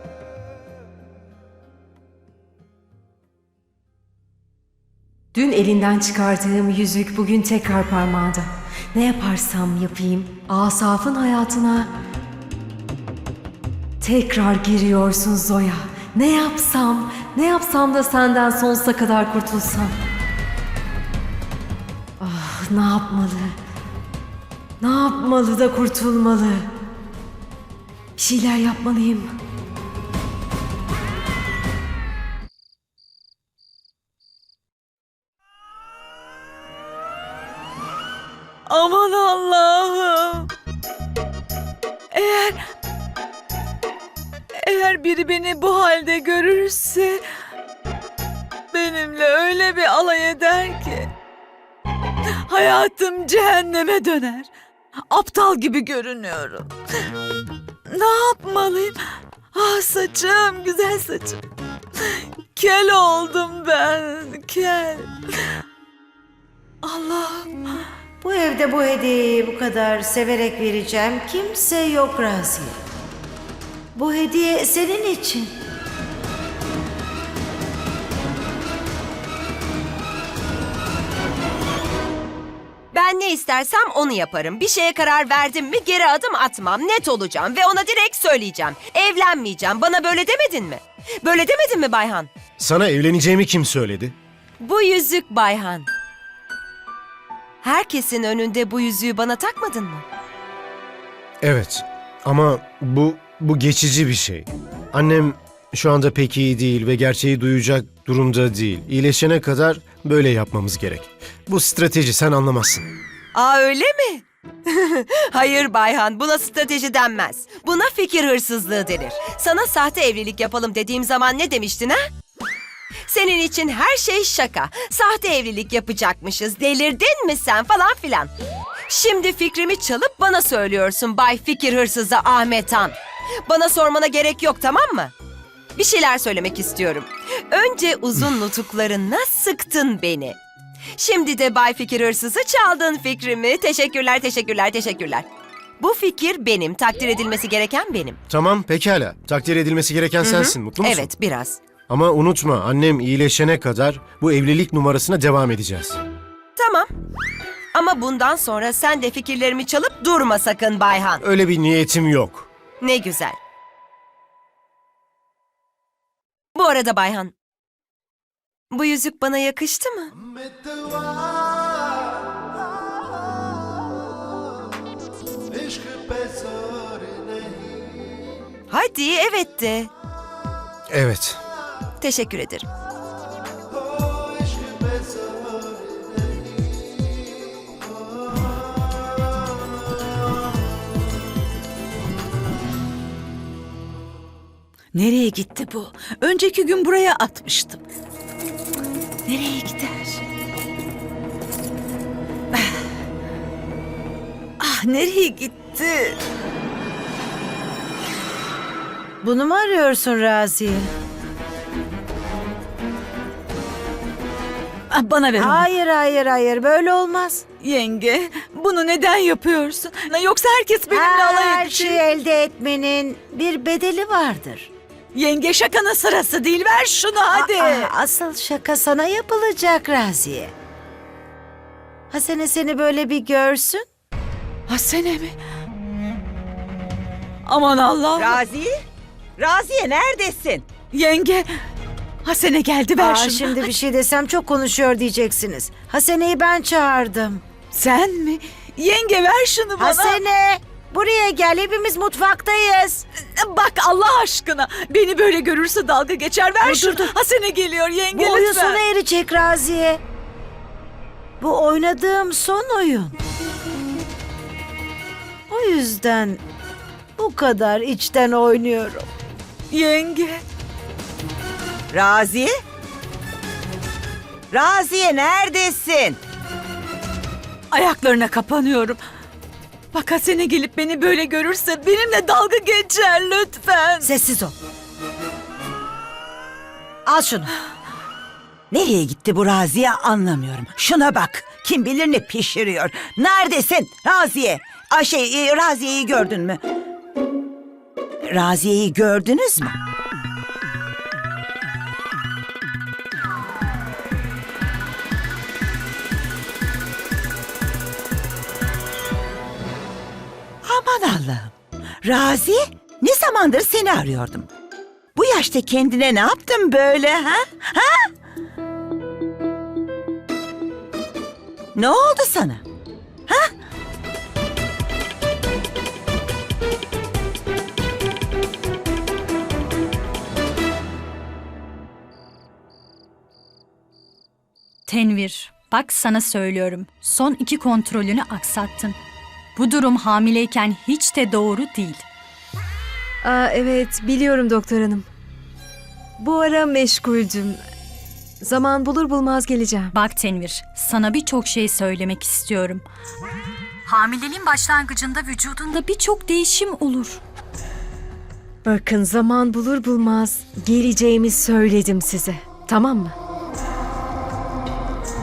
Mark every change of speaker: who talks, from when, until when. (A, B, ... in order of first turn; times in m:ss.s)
0:05.3-0:11.9 A
0:14.0-0:20.0 A
0:22.2-0:23.6 A
0:24.8-0:26.7 A
0:28.2-0:29.3 A
0:38.7-0:40.5 B
0:42.1-0:42.6 B
0:44.6-0:47.2 B
0:48.7-0:51.1 B
0:52.5-0:54.5 B
0:55.1-0:56.7 B
0:57.9-0:59.0 B
0:59.5-1:01.4 B
1:02.0-1:05.2 B
1:06.8-1:07.5 B
1:08.2-1:12.8 C
1:14.0-1:15.6 C
1:22.9-1:32.3 D
1:32.6-1:34.2 E
1:34.6-1:35.9 D
1:37.6-1:40.0 D
1:41.4-1:52.9 E
1:53.3-2:02.1 D
2:03.1-2:08.3 D
2:08.9-2:13.0 D
2:13.5-2:15.1 D
2:15.8-2:20.4 D
2:21.0-2:25.2 D
2:25.8-2:28.2 D
2:28.3-2:31.1 E
2:30.2-2:31.6 D
2:31.9-2:36.0 E
2:36.6-2:36.9 D
2:37.7-2:41.2 D
2:41.2-2:42.5 E
2:42.8-2:43.4 D
2:46.6-2:47.3 D
2:48.7-2:50.1 D
2:58.7-2:59.9 D
3:00.9-3:01.4 E
3:02.0-3:02.6 D
3:14.9-3:17.8 B
3:19.3-3:20.2 B
3:24.6-3:26.2 B
3:29.2-3:30.9 C
3:34.9-3:35.7 B
3:35.4-3:37.5 C
3:37.6-3:42.0 B
3:40.9-3:44.7 C
3:45.1-3:47.9 B
3:47.3-3:50.5 C
3:52.1-3:53.9 C
3:54.7-3:55.4 B
3:57.5-3:58.4 B
3:58.2-3:58.7 F
3:59.4-4:00.7 F
4:00.9-4:01.5 B
4:02.2-4:03.6 B
4:03.0-4:07.4 C
4:07.7-4:10.2 B
4:09.8-4:13.1 C
4:13.2-4:18.8 B
4:16.6-4:17.1 C
4:18.1-4:20.0 C
4:21.4-4:23.2 C
4:25.5-4:26.4 C
4:27.2-4:29.1 C
4:29.7-4:30.4 B
4:31.9-4:32.6 F
4:34.5-4:36.2 F
4:37.7-4:39.0 B
4:39.9-4:44.1 B
4:44.1-4:44.5 C
4:47.1-4:47.5 C
4:48.7-4:56.6 F
4:58.3-4:59.8 F
5:10.6-5:14.5 F
5:15.2-5:18.1 F
5:21.8-5:22.6 F
5:34.9-5:39.0 G
5:39.6-5:42.0 G
5:43.2-5:45.1 A
5:46.2-5:47.6 A
5:48.4-5:49.9 A
5:49.9-5:52.8 G
5:53.9-5:57.2 G
5:58.6-6:03.2 A